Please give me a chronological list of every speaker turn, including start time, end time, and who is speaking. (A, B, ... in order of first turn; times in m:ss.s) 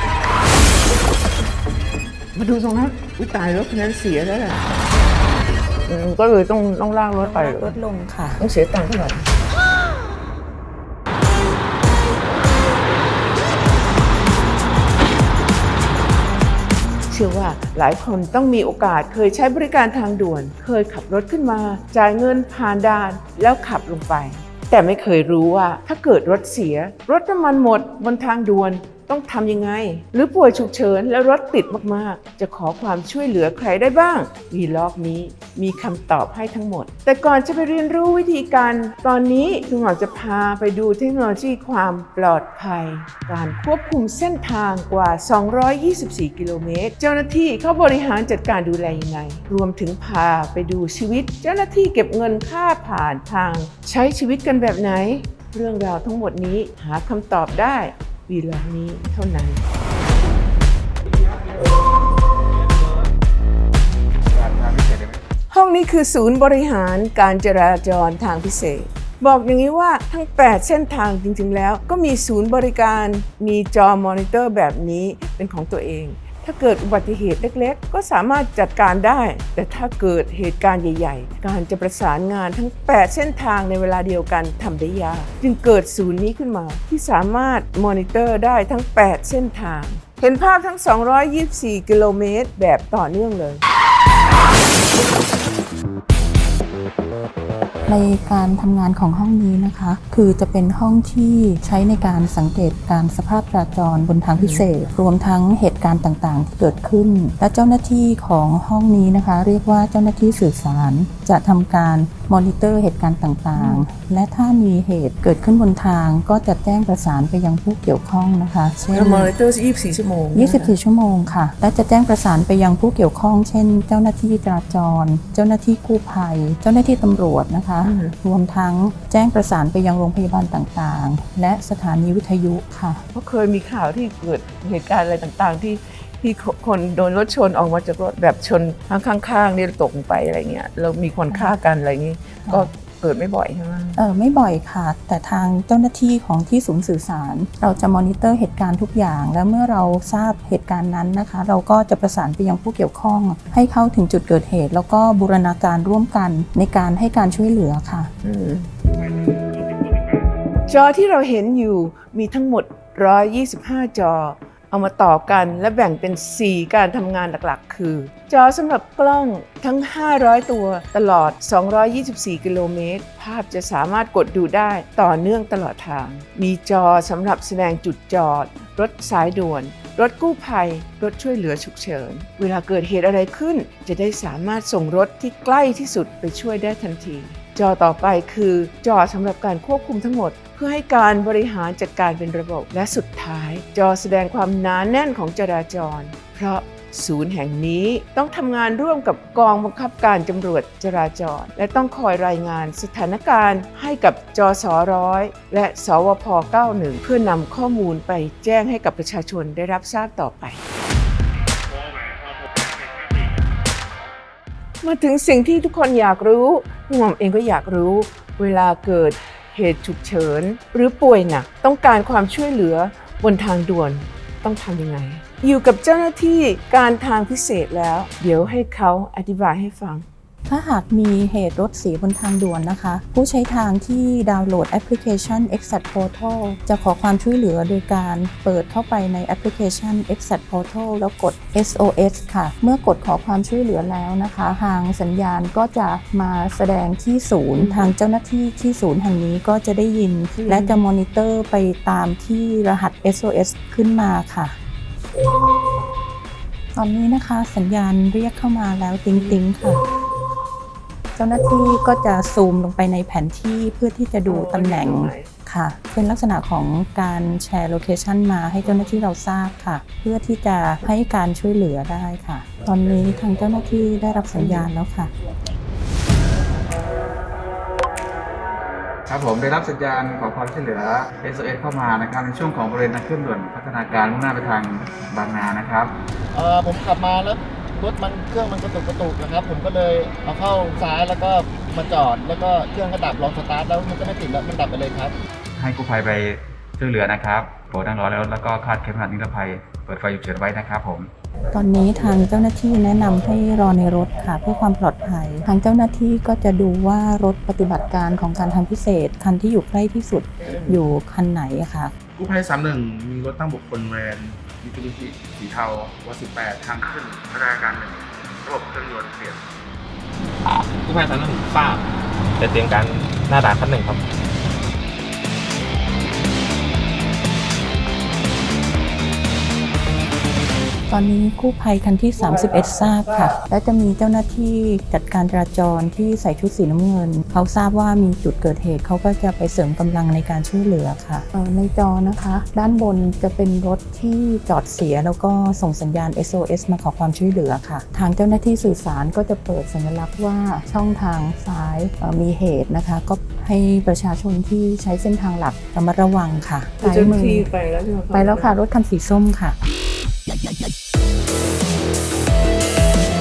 0:02.3-0:04.7 A
0:05.8-0:07.8 A
0:07.2-0:08.4 B
0:08.4-0:09.3 A
0:17.1-0:59.6 A
1:04.3-1:05.2 C
1:05.5-1:33.6 A
1:37.9-1:59.3 B
1:44.4-1:44.6 A
1:53.6-1:53.8 A
1:58.9-2:00.7 A
2:00.3-2:13.0 B
2:07.8-2:08.1 A
2:13.1-2:24.0 A
2:21.3-2:21.5 B
2:24.0-2:38.1 B
2:38.2-2:38.7 A
2:40.7-3:30.6 A
3:34.8-3:50.0 A
3:50.5-4:14.6 B
4:07.5-4:07.9 A
4:10.3-4:10.8 A
4:16.7-4:19.8 B
4:21.2-4:35.1 B
4:24.3-4:25.3 A
4:34.3-4:34.7 A
4:39.1-4:45.9 C
4:46.4-4:48.3 D
4:49.2-4:49.5 D
4:50.4-4:55.1 D
4:55.6-5:01.1 C
5:01.5-5:11.9 B
5:10.4-5:10.8 A
5:12.2-5:19.1 E
5:20.8-5:21.8 F
5:22.4-5:24.0 F
5:30.9-5:57.5 B
5:32.2-5:33.4 A
5:56.8-5:58.6 A
5:58.1-5:59.6 B